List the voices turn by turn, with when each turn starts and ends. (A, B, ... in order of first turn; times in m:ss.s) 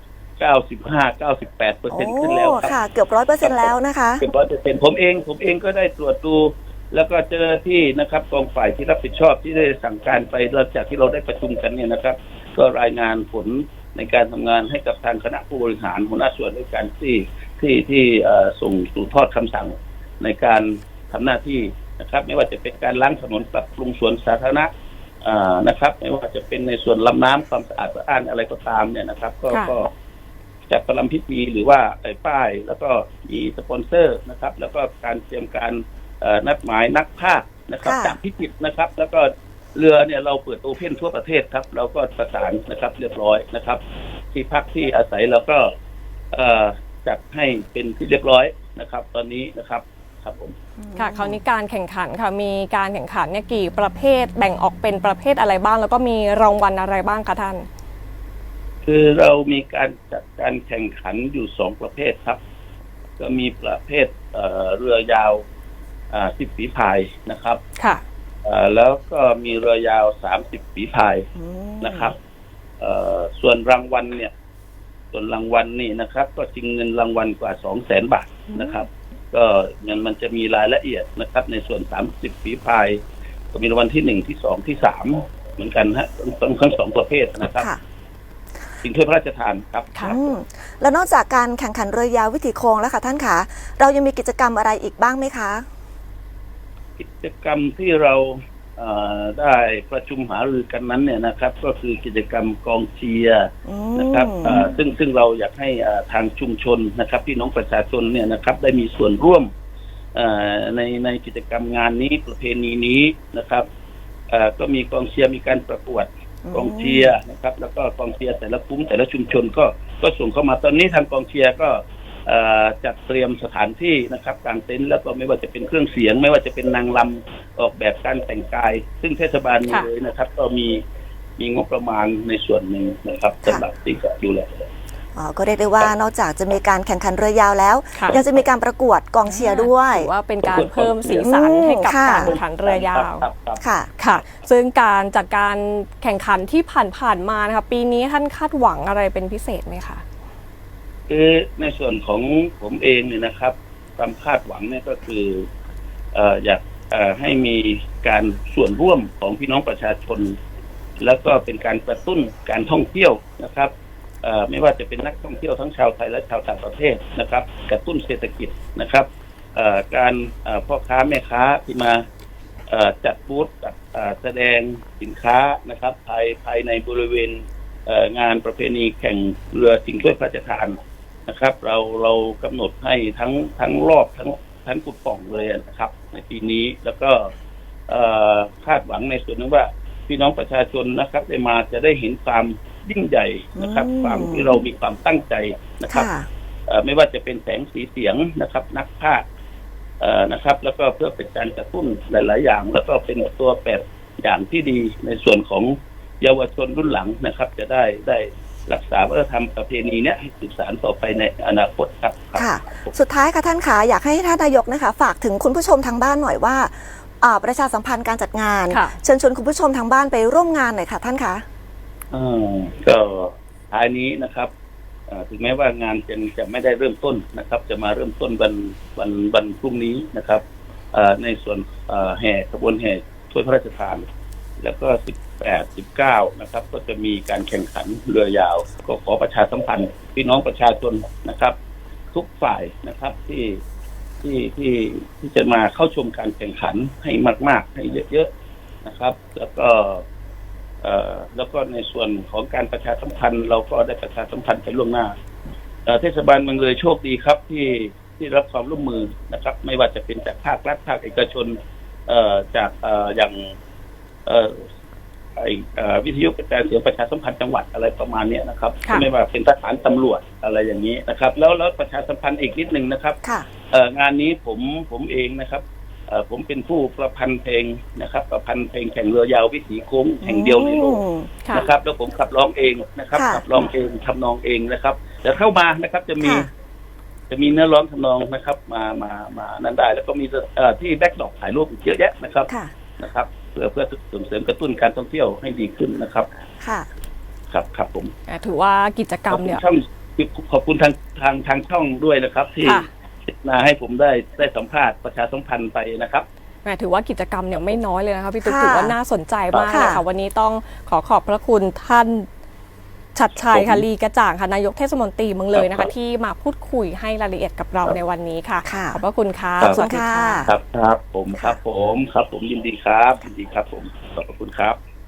0:00.4-0:02.7 A
0:01.9-0:04.2 B
0:03.4-0:24.7 A
0:25.2-0:29.9 A
0:30.7-0:43.8 A
0:37.8-0:38.2 B
0:44.3-0:45.7 A
0:46.3-0:50.5 A
0:50.8-0:51.4 B
0:51.0-0:57.7 C
0:58.8-1:02.4 A
1:03.2-1:05.4 A
1:06.1-1:07.6 A
1:07.8-1:08.0 C
1:08.4-1:11.3 A
1:11.4-1:12.1 B
1:11.8-1:12.2 A
1:12.8-1:14.3 A
1:15.1-1:23.0 A
1:23.5-1:27.7 A
1:28.8-1:30.2 A
1:30.0-1:35.7 B
1:37.0-1:49.5 A
1:43.6-1:44.7 B
1:50.1-1:53.6 A
1:54.3-2:10.8 A
1:56.4-1:57.1 B
2:11.4-2:14.6 A
2:15.1-2:20.1 B
2:19.2-2:23.2 C
2:20.4-2:21.3 A
2:21.2-2:22.3 B
2:22.1-2:23.6 A
2:23.6-2:23.9 B
2:24.0-2:30.0 C
2:31.1-2:35.5 A
2:36.1-2:40.4 A
2:41.0-2:43.7 A
2:44.2-2:52.0 A
2:52.7-3:07.3 A
3:07.9-3:16.1 A
3:13.6-3:14.6 B
3:15.9-3:16.3 B
3:16.7-3:19.2 A
3:20.0-3:32.9 A
3:32.3-3:41.4 B
3:38.7-3:39.0 C
3:42.1-3:44.5 A
3:45.1-3:54.0 A
3:54.6-4:01.6 A
4:02.1-4:03.6 A
4:04.2-4:08.3 A
4:08.8-4:10.0 A
4:10.8-4:15.1 A
4:15.8-4:23.5 A
4:24.2-4:24.6 A
4:25.4-4:33.2 A
4:33.7-4:41.0 A
4:40.2-4:41.4 B
4:41.5-4:46.5 A
4:43.1-4:43.4 B
4:46.2-4:46.5 B
4:47.3-4:56.3 A
4:56.6-4:56.9 B
4:57.5-4:58.1 A
4:58.3-4:59.6 C
4:59.3-5:06.2 A
5:06.6-5:12.3 C
5:08.4-5:09.0 B
5:09.5-5:10.0 A
5:09.7-5:10.0 B
5:13.1-5:20.5 C
5:13.4-5:13.8 A
5:15.5-5:15.9 A
5:18.6-5:19.0 B
5:19.7-5:20.5 B
5:20.5-5:24.8 A